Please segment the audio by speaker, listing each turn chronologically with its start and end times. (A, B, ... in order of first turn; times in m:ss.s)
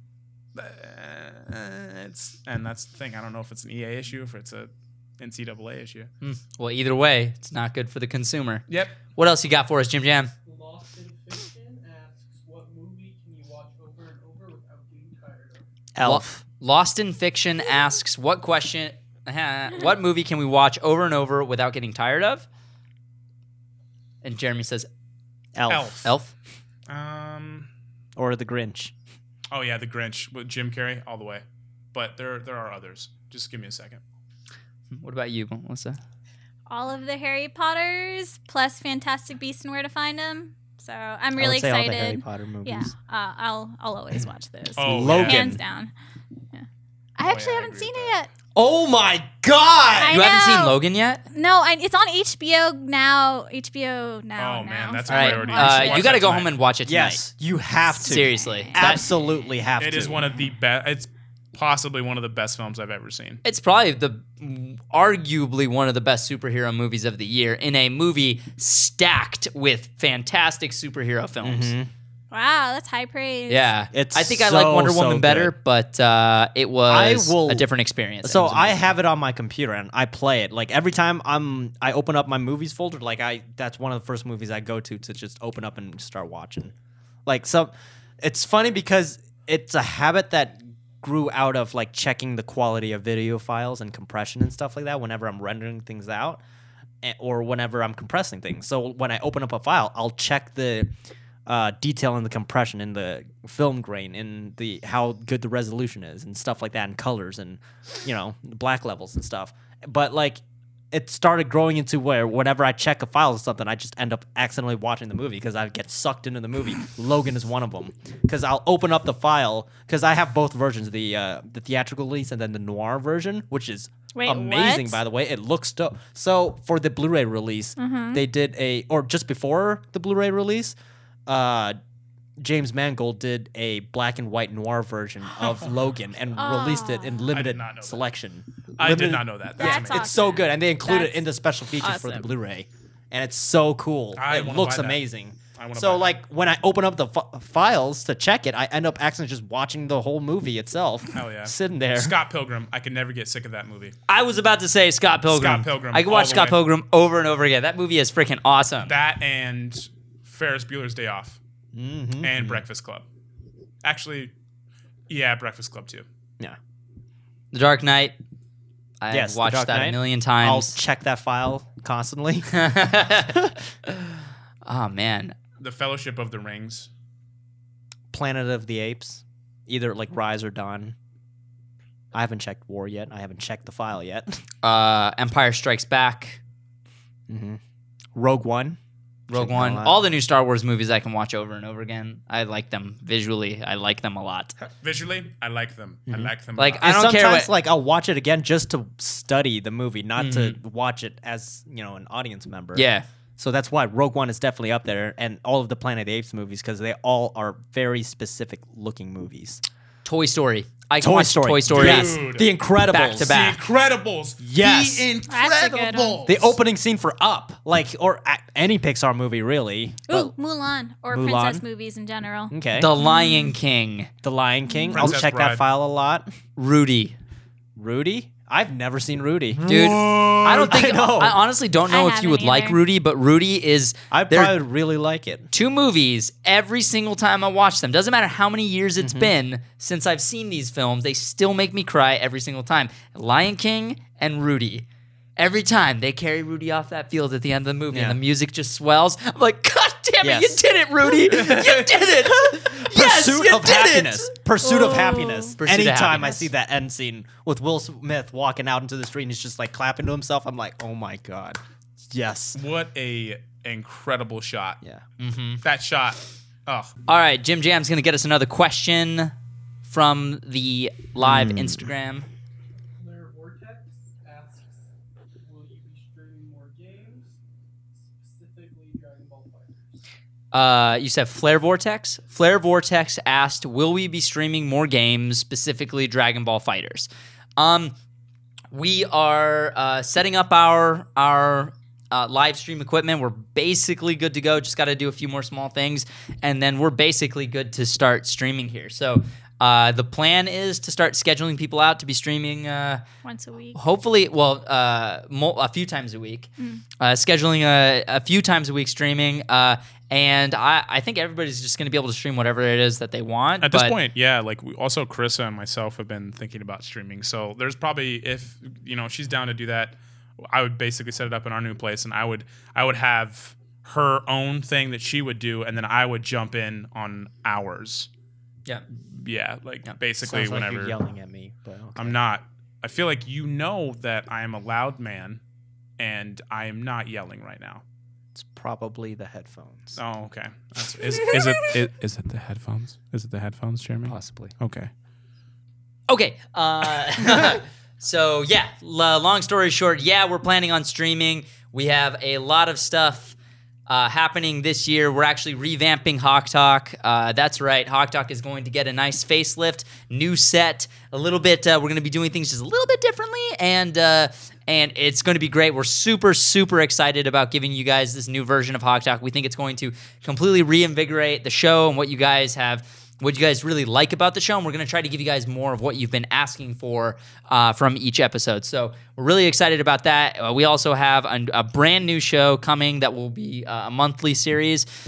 0:00.5-0:06.1 A
0:06.2-0:10.3 B
0:08.7-0:09.0 A
0:10.4-0:15.6 C
0:15.9-0:16.4 D
0:16.0-0:22.4 B
0:24.2-0:24.9 B
0:25.5-0:26.1 D
0:25.7-0:26.1 A
0:26.0-0:26.3 B
0:26.9-0:27.7 A
0:28.2-0:28.9 D
0:29.5-0:34.0 A
0:34.9-0:36.0 B
0:36.7-0:45.9 E
0:41.4-0:42.9 D
0:44.8-0:45.6 A
0:44.8-0:45.6 D
0:47.2-0:48.3 E
0:47.2-0:48.2 A
0:48.5-0:50.2 D
0:49.9-0:50.8 E
0:50.1-0:51.2 B
0:51.3-0:56.1 E
0:54.4-0:56.6 A
0:55.1-0:57.2 B
0:56.8-1:00.2 D
0:57.9-0:59.0 E
0:58.0-0:59.0 B
0:59.8-1:03.4 A
1:03.4-1:11.7 B
1:11.4-1:11.9 D
1:12.3-1:13.8 E
1:13.5-1:18.9 B
1:13.9-1:15.5 D
1:16.9-1:17.7 D
1:18.2-1:26.7 D
1:27.2-1:36.4 D
1:37.0-1:40.9 D
1:41.4-1:50.4 D
1:50.9-2:10.8 D
2:04.1-2:05.0 E
2:07.8-2:08.2 E
2:11.3-2:11.8 D
2:12.4-2:32.1 D
2:15.4-2:15.8 A
2:16.4-2:17.3 E
2:17.3-2:18.1 A
2:18.8-2:20.0 A
2:19.6-2:21.2 E
2:21.8-2:22.2 E
2:24.2-2:25.0 A
2:25.5-2:26.2 A
2:31.1-2:33.9 A
2:34.1-2:38.9 B
2:35.3-2:36.6 A
2:38.8-2:41.4 A
2:41.7-2:42.6 D
2:42.2-2:43.0 A
2:43.8-2:44.3 A
2:45.1-2:46.0 A
2:47.5-2:48.2 B
2:49.0-2:50.8 B
2:49.1-2:52.6 D
2:52.5-2:55.4 B
2:55.6-2:56.9 A
2:58.1-3:01.0 D
3:02.1-3:04.4 D
3:04.6-3:06.4 B
3:07.3-3:07.6 D
3:08.1-3:08.8 D
3:09.3-3:14.6 B
3:09.3-3:10.0 D
3:14.8-3:16.8 A
3:16.1-3:22.9 D
3:16.6-3:17.5 B
3:20.2-3:20.6 B
3:22.7-3:23.0 B
3:23.4-3:29.6 D
3:30.0-3:32.2 B
3:31.0-3:33.5 D
3:31.7-3:32.5 A
3:32.9-3:33.6 B
3:33.2-3:36.6 A
3:34.4-3:35.1 D
3:35.3-3:36.2 E
3:36.2-3:40.3 D
3:40.1-3:43.6 E
3:41.1-3:41.6 D
3:42.5-3:42.9 D
3:42.8-3:44.1 B
3:44.2-3:46.3 D
3:44.7-3:45.1 E
3:44.9-3:45.6 A
3:46.6-3:47.2 B
3:47.8-3:51.4 D
3:49.6-3:54.6 B
3:51.8-3:52.8 E
3:54.1-3:55.5 D
3:55.5-4:04.8 B
3:59.0-3:59.3 D
4:05.4-4:14.3 B
4:07.9-4:08.2 D
4:10.2-4:22.6 D
4:14.6-4:15.6 E
4:15.6-4:16.4 B
4:22.5-4:24.8 A
4:25.2-4:25.6 B
4:25.6-4:26.9 A
4:27.1-4:29.3 B
4:29.8-4:32.3 B
4:31.2-4:31.9 D
4:33.0-4:34.9 C
4:35.4-4:37.4 C
4:38.0-4:40.0 C
4:40.5-4:47.9 B
4:48.7-5:03.0 B
5:03.2-5:03.8 E
5:03.7-5:14.0 B
5:13.6-5:28.1 A
5:29.0-5:31.0 A
5:30.2-5:32.2 D
5:32.0-5:35.4 A
5:36.0-5:37.8 A
5:38.3-5:40.0 D
5:40.0-5:44.9 A
5:41.1-5:41.7 E
5:44.0-5:44.5 D
5:46.1-5:53.4 B
5:53.9-6:24.9 B